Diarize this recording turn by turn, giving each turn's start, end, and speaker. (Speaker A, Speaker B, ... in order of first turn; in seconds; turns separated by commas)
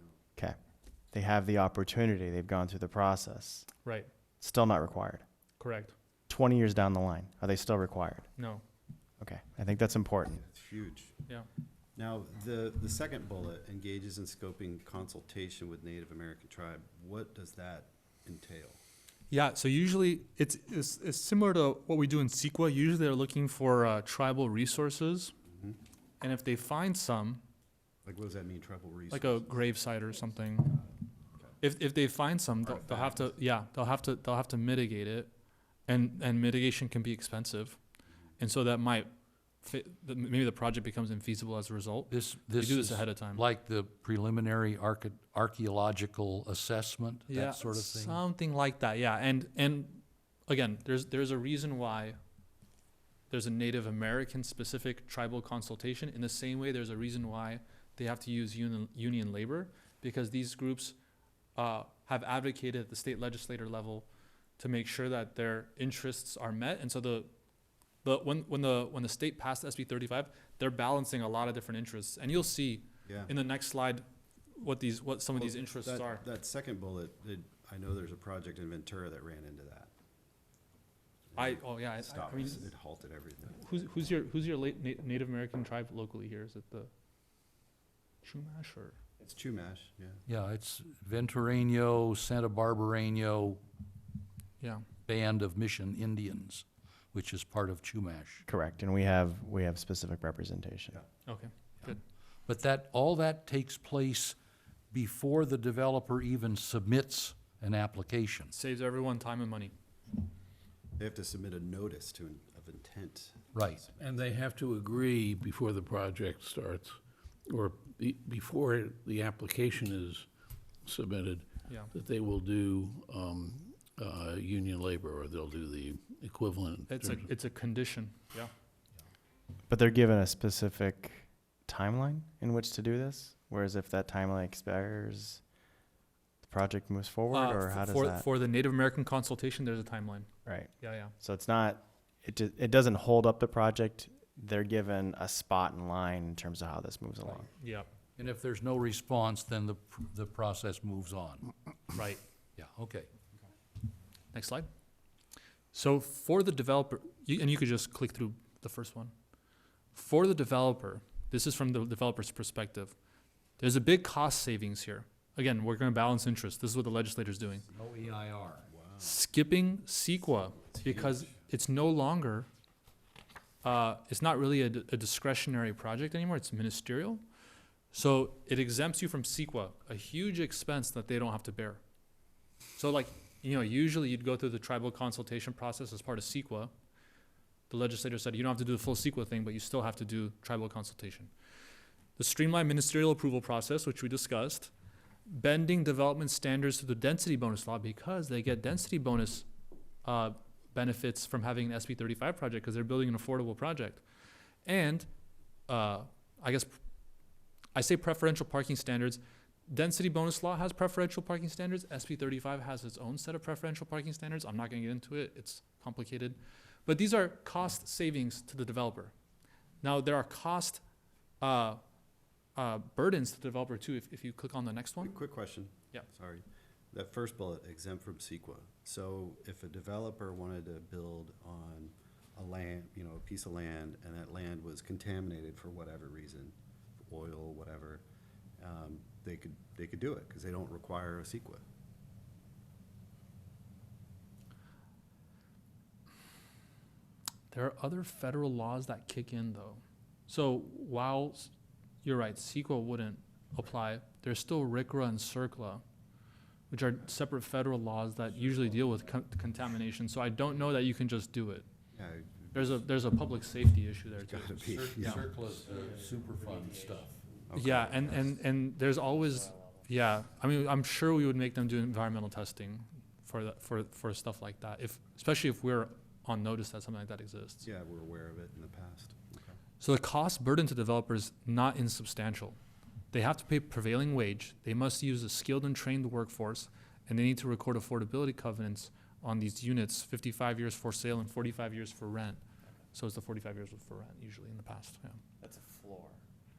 Speaker A: 1.1-3.7, Speaker A: 4.4-5.2, Speaker B: 5.6-5.9, Speaker A: 6.3-8.3, Speaker B: 8.3-8.6, Speaker A: 9.2-10.4, Speaker C: 10.4-11.1, Speaker C: 11.9-18.8, Speaker B: 19.3-25.3, Speaker B: 26.2-27.4, Speaker C: 28.0-29.7, Speaker B: 29.1-30.8, Speaker B: 31.6-35.3, Speaker C: 32.7-33.3, Speaker B: 35.9-37.8, Speaker B: 38.4-39.1, Speaker B: 39.6-43.4, Speaker D: 42.1-48.2, Speaker B: 47.3-52.2, Speaker B: 53.3-61.0, Speaker B: 61.5-64.1, Speaker B: 64.6-67.3, Speaker B: 68.0-74.0, Speaker C: 73.0-73.3, Speaker B: 74.5-76.2, Speaker C: 75.3-79.9, Speaker C: 81.3-83.7, Speaker B: 81.3-82.7, Speaker B: 83.5-86.9, Speaker B: 88.2-89.0, Speaker C: 89.2-90.2, Speaker D: 90.3-93.6, Speaker D: 95.0-98.4, Speaker A: 98.5-101.0, Speaker B: 101.2-102.0, Speaker D: 102.5-104.3, Speaker D: 104.9-108.5, Speaker B: 108.5-109.7, Speaker C: 111.0-114.2, Speaker D: 113.5-113.8, Speaker E: 114.0-120.2, Speaker E: 120.8-127.3, Speaker B: 126.9-128.5, Speaker A: 129.7-135.4, Speaker A: 136.4-138.2, Speaker B: 137.3-140.3, Speaker A: 140.4-147.5, Speaker B: 140.8-141.1, Speaker B: 147.4-147.9, Speaker D: 148.2-151.5, Speaker B: 151.9-152.2, Speaker D: 152.6-153.1, Speaker B: 154.3-154.7, Speaker B: 155.7-159.1, Speaker B: 159.9-162.9, Speaker B: 163.6-167.6, Speaker D: 167.7-168.7, Speaker C: 168.7-169.2, Speaker B: 169.0-172.5, Speaker C: 170.7-171.3, Speaker B: 173.6-177.2, Speaker B: 177.9-181.8, Speaker B: 182.8-186.7, Speaker B: 187.7-191.3, Speaker B: 192.2-194.7, Speaker B: 195.3-199.5, Speaker B: 200.0-204.0, Speaker B: 204.6-205.1, Speaker B: 205.7-206.8, Speaker B: 207.7-219.1, Speaker B: 219.8-220.8, Speaker B: 221.4-221.8, Speaker B: 222.6-225.2, Speaker C: 225.0-238.0, Speaker C: 238.6-241.6, Speaker B: 247.5-251.5, Speaker B: 252.0-255.8, Speaker B: 256.7-261.7, Speaker C: 261.9-262.8, Speaker B: 262.5-265.2, Speaker C: 264.2-265.3, Speaker D: 264.7-267.2, Speaker C: 267.5-268.3, Speaker B: 267.5-277.6, Speaker C: 277.6-279.5, Speaker B: 279.8-282.6, Speaker B: 283.1-292.4, Speaker B: 292.9-295.2, Speaker A: 295.4-296.1